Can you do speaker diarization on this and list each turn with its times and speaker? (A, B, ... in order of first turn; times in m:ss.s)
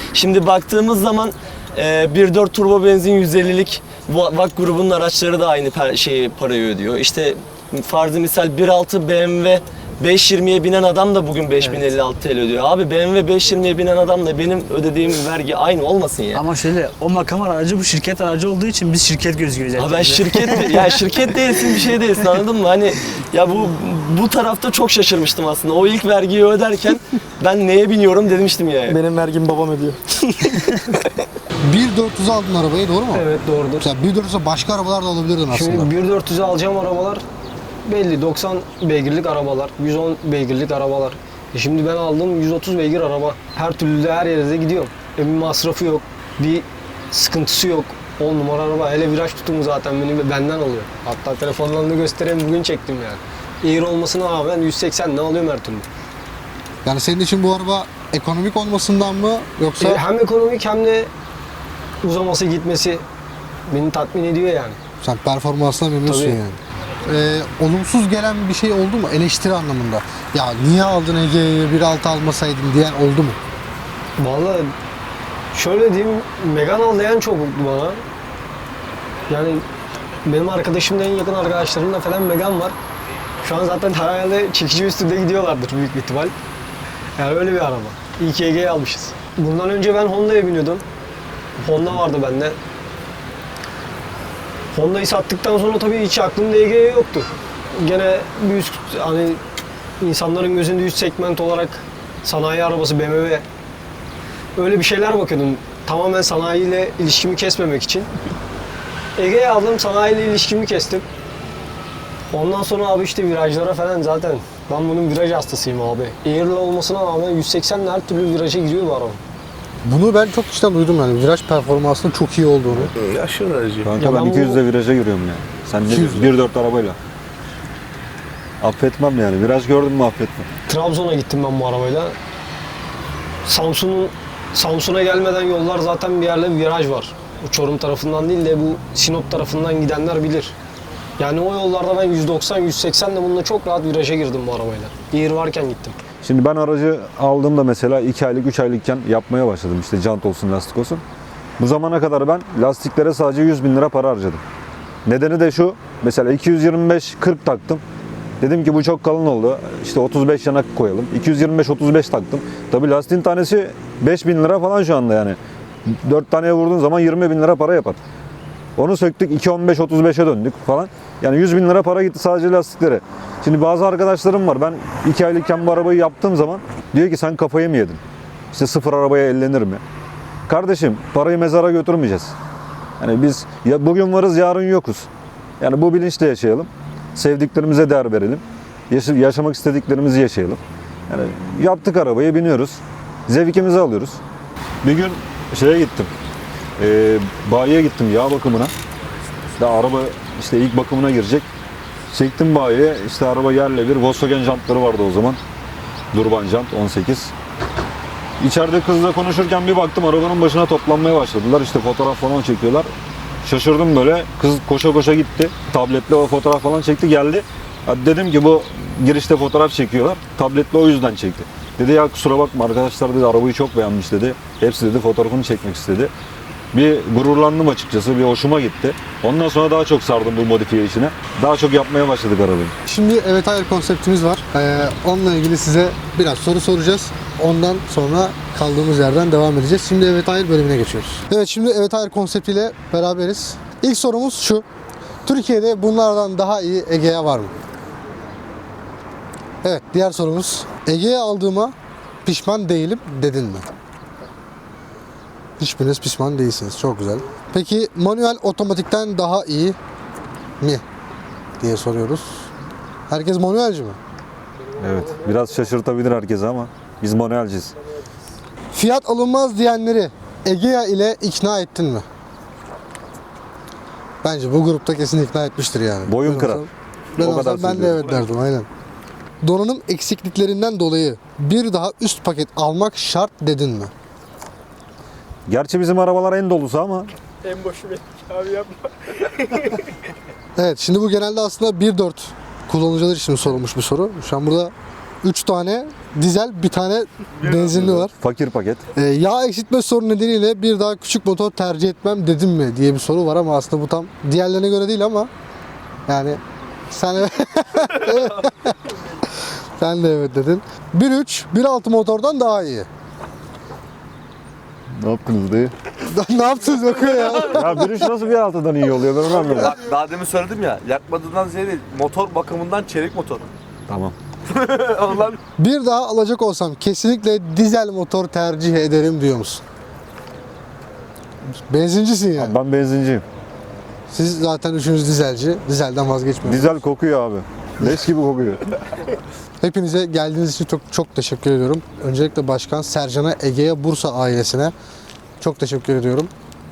0:00.1-0:16.4 A
0:16.3-0:20.8 B
0:19.8-0:29.0 A
0:28.9-0:31.1 C
0:31.6-0:33.3 D
0:33.1-0:33.9 E
0:33.8-0:35.9 D
0:35.5-0:37.2 E
0:37.8-0:55.9 E
0:56.8-1:00.0 D
0:59.8-1:01.1 E
1:02.0-1:03.0 E
1:03.7-1:04.8 E
1:05.0-1:13.4 D
1:06.1-1:06.4 E
1:14.2-1:14.7 E
1:15.5-1:18.0 E
1:19.3-1:19.7 E
1:20.3-1:22.8 E
1:23.4-1:26.3 E
1:27.2-1:30.8 E
1:31.6-1:32.6 E
1:34.7-1:39.4 E
1:40.0-1:43.4 E
1:44.6-1:48.1 E
1:49.2-1:51.1 E
1:52.3-1:59.2 E
1:59.8-2:02.9 D
2:03.0-2:03.9 F
2:03.8-2:07.0 G
2:04.0-2:04.6 E
2:05.9-2:06.3 D
2:08.6-2:10.5 G
2:10.7-2:12.2 E
2:13.4-2:20.6 E
2:21.2-2:26.0 E
2:26.2-2:31.0 G
2:31.6-2:34.4 G
2:35.1-2:37.8 G
2:38.4-2:48.0 G
2:48.8-2:58.0 G
2:58.5-2:59.8 G
3:00.5-3:02.3 G
3:03.0-3:05.1 G
3:05.6-3:14.2 G
3:14.8-3:16.1 G
3:16.8-3:18.7 G
3:19.6-3:21.5 G
3:22.1-3:25.4 G
3:26.1-3:27.3 G
3:28.4-3:32.9 G
3:33.4-3:46.1 G
3:46.7-3:52.7 G
3:52.9-4:04.7 D
4:05.2-4:07.5 D
4:09.6-4:13.7 D
4:15.6-4:19.8 D
4:21.6-4:22.5 D
4:23.1-4:24.0 D
4:24.8-4:27.7 G
4:28.7-4:32.1 D
4:34.2-4:38.7 D
4:36.1-4:38.2 G
4:39.4-4:43.9 D
4:45.5-4:47.1 G
4:47.6-4:48.7 C
4:50.6-4:58.1 D
4:57.4-4:58.0 F
4:57.7-4:58.8 G
4:59.0-5:05.3 D
5:06.1-5:08.8 D
5:09.8-5:12.9 D
5:14.9-5:15.7 G
5:16.0-5:18.2 D
5:17.0-5:17.4 F
5:17.5-5:19.8 G
5:19.2-5:23.5 F
5:23.9-5:24.2 G
5:24.5-5:25.4 F
5:25.6-5:29.6 D
5:31.7-5:32.6 D
5:32.4-5:33.2 G
5:34.1-5:36.8 D
5:36.5-5:38.7 G
5:39.6-5:44.7 D
5:45.4-5:46.3 D